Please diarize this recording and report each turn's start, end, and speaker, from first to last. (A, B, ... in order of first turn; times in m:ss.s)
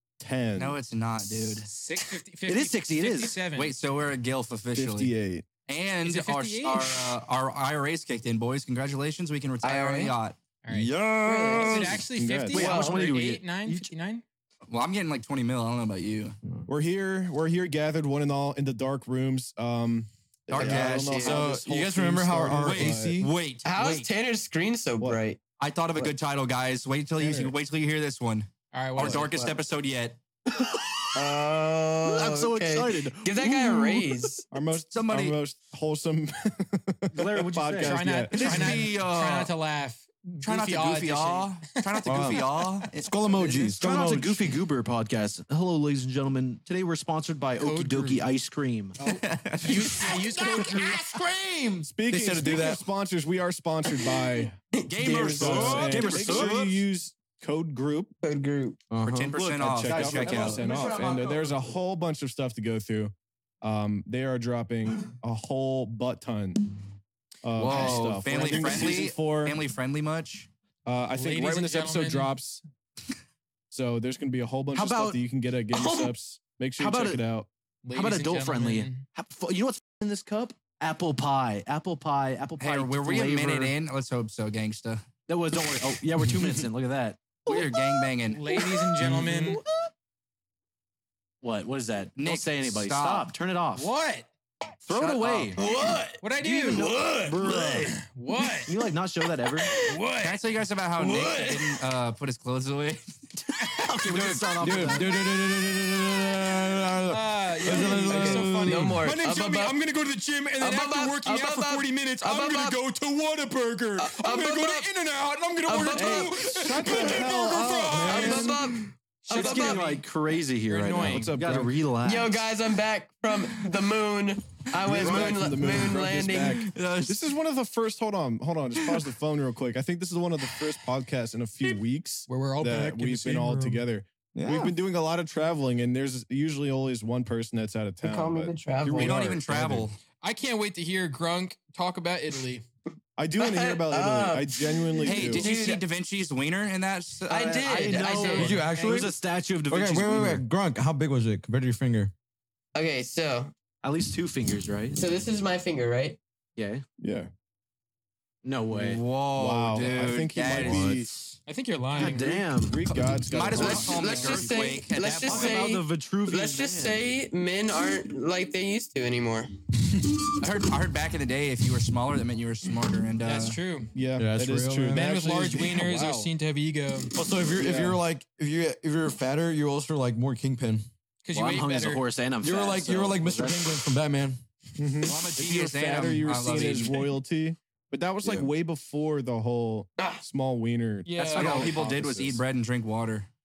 0:00.2-0:00.8 A
0:00.6-0:01.7 B
0:01.6-0:03.7 C
0:02.5-0:03.4 D
0:03.5-0:05.1 B
0:04.8-0:05.5 A
0:05.7-0:10.4 B
0:06.0-0:06.9 C
0:09.6-0:10.1 E
0:10.6-0:11.0 C
0:10.7-0:12.0 F
0:11.2-0:12.0 E
0:11.6-0:14.2 C
0:12.2-0:12.6 A
0:12.5-0:13.9 D
0:12.5-0:13.0 E
0:14.7-0:16.4 B
0:16.7-0:23.2 A
0:20.5-0:21.2 B
0:20.6-0:21.4 E
0:20.7-0:23.3 F
0:22.6-0:24.1 B
0:23.6-0:25.4 E
0:25.6-0:30.2 B
0:27.2-0:27.6 A
0:28.7-0:29.3 C
0:29.3-0:29.6 E
0:31.1-0:34.4 E
0:32.0-0:34.2 D
0:34.5-0:38.9 A
0:34.9-0:35.4 B
0:37.1-0:38.0 D
0:37.7-0:42.1 C
0:38.3-0:39.5 B
0:40.4-0:43.8 B
0:42.0-0:44.5 F
0:43.7-0:49.0 D
0:47.6-0:48.2 C
0:49.0-0:49.9 B
0:49.6-0:51.0 C
0:49.9-0:52.8 F
0:51.8-0:54.6 A
0:54.8-0:55.2 E
0:54.9-0:56.7 B
0:55.0-0:56.7 D
0:55.1-0:58.2 A
0:58.2-0:58.8 E
0:58.9-1:01.7 F
0:59.0-1:00.6 B
0:59.6-1:06.7 A
1:07.4-1:09.6 A
1:07.6-1:10.5 B
1:07.7-1:08.0 C
1:10.9-1:12.6 A
1:11.2-1:12.3 C
1:13.7-1:17.5 A
1:14.7-1:15.2 D
1:15.7-1:16.1 E
1:16.8-1:17.2 D
1:17.8-1:19.1 C
1:17.9-1:23.7 D
1:22.6-1:25.0 B
1:25.3-1:27.7 D
1:27.4-1:28.4 B
1:28.3-1:29.6 C
1:29.0-1:29.5 D
1:31.4-1:33.9 D
1:32.2-1:33.3 B
1:33.8-1:34.3 C
1:34.8-1:35.6 D
1:35.0-1:35.6 C
1:35.6-1:36.1 F
1:35.6-1:36.1 E
1:36.2-1:37.0 C
1:36.3-1:38.0 D
1:36.8-1:37.9 F
1:37.8-1:38.7 C
1:38.7-1:39.8 D
1:39.7-1:40.3 F
1:40.2-1:43.5 B
1:41.1-1:41.6 F
1:43.6-1:44.4 C
1:43.8-1:45.2 D
1:44.1-1:49.0 F
1:47.1-1:58.6 C
1:48.1-1:49.8 E
1:50.6-1:52.8 E
1:54.0-1:54.9 E
1:55.7-1:56.4 E
1:56.0-1:56.3 D
1:56.4-1:58.6 A
1:58.0-1:58.7 F
1:58.0-2:00.0 E
1:59.2-2:00.0 C
1:59.3-2:02.4 D
2:00.6-2:01.4 C
2:01.0-2:01.7 A
2:02.0-2:06.6 E
2:04.8-2:19.9 A
2:05.1-2:05.4 F
2:06.5-2:07.3 B
2:12.3-2:13.8 C
2:14.4-2:14.7 F
2:18.0-2:19.3 E
2:19.0-2:20.0 B
2:20.2-2:22.6 C
2:23.2-2:25.5 A
2:23.4-2:25.8 E
2:25.0-2:28.6 B
2:27.3-2:28.6 E
2:27.6-2:30.4 D
2:28.3-2:29.2 F
2:28.7-2:29.1 C
2:29.7-2:32.1 F
2:32.8-2:33.5 E
2:33.8-2:35.0 D
2:34.9-2:36.2 E
2:36.6-2:36.8 D
2:37.0-2:37.3 A
2:38.4-2:39.0 D
2:38.7-2:41.0 B
2:39.3-2:41.1 A
2:40.4-2:41.4 F
2:41.5-2:42.3 C
2:42.0-2:42.8 D
2:42.0-2:44.5 A
2:42.9-2:45.7 B
2:43.5-2:49.5 E
2:45.2-2:47.1 D
2:50.4-2:53.6 B
2:53.2-2:53.9 C
2:53.9-2:56.3 A
2:54.2-2:55.2 F
2:54.9-2:57.1 C
2:57.2-3:00.9 F
2:57.6-2:58.0 A
3:01.2-3:02.0 C
3:01.3-3:03.8 D
3:02.4-3:04.4 F
3:04.8-3:12.4 A
3:05.0-3:07.1 B
3:11.1-3:11.7 C
3:11.2-3:13.3 B